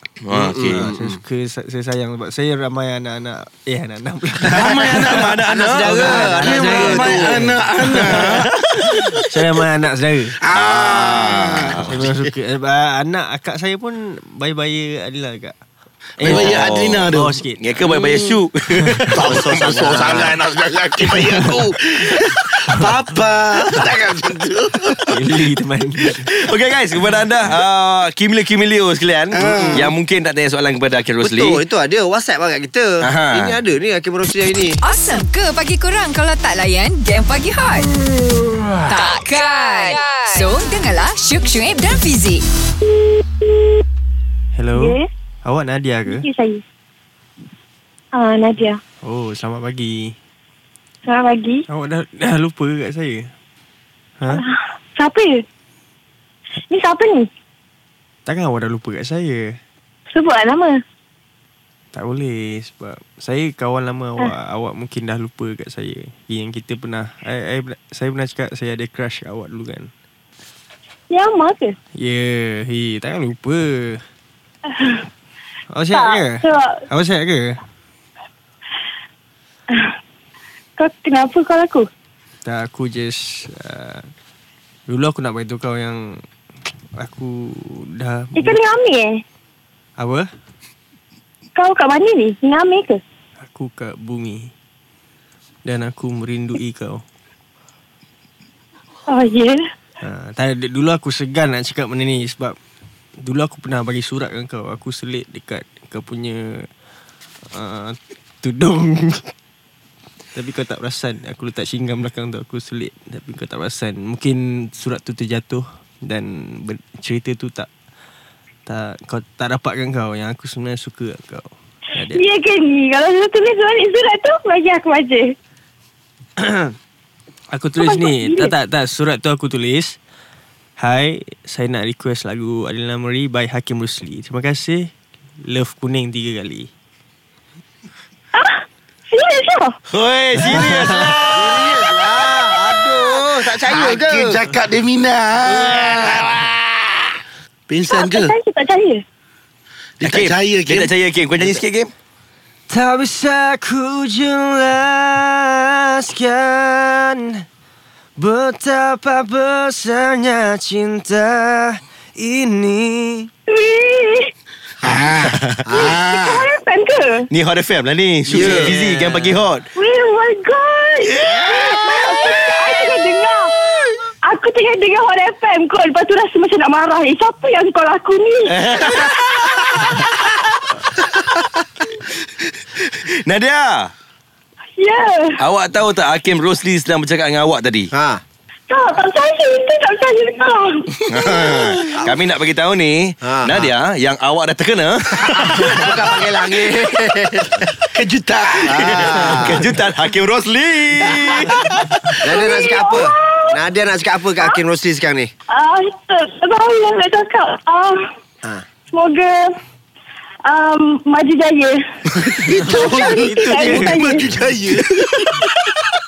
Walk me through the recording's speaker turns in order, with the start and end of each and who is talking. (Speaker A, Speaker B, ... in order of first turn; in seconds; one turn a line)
Speaker A: 0.2-0.8
Speaker B: 0.3-1.2
Speaker C: 0.7-5.2
Speaker D: 4.4-9.3
Speaker A: 4.5-6.3
Speaker B: 5.4-7.5
Speaker C: 5.9-8.2
Speaker A: 8.0-8.9
Speaker C: 9.2-10.4
Speaker D: 10.4-11.9
Speaker A: 10.6-11.9
Speaker C: 11.8-15.6
Speaker B: 12.0-12.3
Speaker C: 16.2-17.6
Speaker D: 16.2-18.4
Speaker A: 16.2-20.0
Speaker C: 18.8-19.1
Speaker D: 19.0-25.5
Speaker B: 19.2-20.3
Speaker C: 21.1-21.6
Speaker C: 25.0-26.2
Speaker A: 26.3-31.6
Speaker D: 29.3-29.9
Speaker B: 29.4-29.9
Speaker B: 31.2-34.8
Speaker A: 33.0-33.6
Speaker E: 34.8-37.9
Speaker E: 38.9-42.4
Speaker C: 44.5-46.3
Speaker F: 44.7-45.1
Speaker F: 46.1-46.6
Speaker F: 48.1-48.8
Speaker C: 49.0-50.1
Speaker F: 51.0-51.6
Speaker C: 51.7-53.3
Speaker F: 54.3-55.4
Speaker F: 56.7-57.3
Speaker C: 58.2-59.6
Speaker F: 60.1-60.8
Speaker C: 61.9-69.9
Speaker F: 71.1-71.8
Speaker C: 71.9-74.0
Speaker F: 74.7-75.0
Speaker C: 75.7-77.6
Speaker F: 75.9-76.8
Speaker F: 79.7-79.9
Speaker F: 80.8-81.9
Speaker C: 82.4-84.1
Speaker C: 84.9-86.2
Speaker C: 87.0-88.6
Speaker F: 88.3-89.2
Speaker C: 90.0-90.3
Speaker F: 91.5-93.0
Speaker C: 93.4-94.5
Speaker C: 95.6-97.0
Speaker F: 99.1-99.6
Speaker C: 100.0-102.6
Speaker C: 103.2-106.7
Speaker C: 107.5-109.3
Speaker C: 110.3-117.7
Speaker C: 118.7-122.2
Speaker F: 122.1-125.3
Speaker C: 126.4-126.7
Speaker C: 127.5-130.0
Speaker F: 127.8-128.5
Speaker C: 130.8-136.7
Speaker F: 138.3-139.7
Speaker A: 139.9-141.7
Speaker C: 140.4-141.1
Speaker B: 141.3-144.4
Speaker D: 141.4-142.4
Speaker D: 143.5-147.1
Speaker D: 147.7-148.3
Speaker F: 147.9-149.0
Speaker D: 150.0-150.9
Speaker A: 150.0-151.9
Speaker C: 152.7-157.4
Speaker C: 158.2-163.3
Speaker F: 163.5-164.3
Speaker D: 164.8-166.5
Speaker B: 165.7-166.0
Speaker F: 165.7-167.3
Speaker A: 167.3-169.6
Speaker B: 168.3-168.8
Speaker F: 169.8-173.5
Speaker D: 171.3-172.0
Speaker F: 174.2-179.7
Speaker A: 178.5-180.4
Speaker A: 182.7-183.9
Speaker F: 184.8-185.4
Speaker A: 185.4-187.9
Speaker B: 187.9-188.2
Speaker F: 188.7-191.0
Speaker A: 191.1-196.1
Speaker D: 191.1-191.9
Speaker B: 193.2-193.7
Speaker B: 195.2-197.8
Speaker D: 197.8-199.8
Speaker B: 198.6-199.6
Speaker A: 198.8-201.7
Speaker D: 201.3-202.5
Speaker B: 202.2-205.3
Speaker F: 202.3-203.6
Speaker F: 205.5-208.0
Speaker F: 208.9-209.6
Speaker F: 210.4-214.4
Speaker D: 212.2-215.8
Speaker C: 212.4-214.3
Speaker B: 214.3-214.8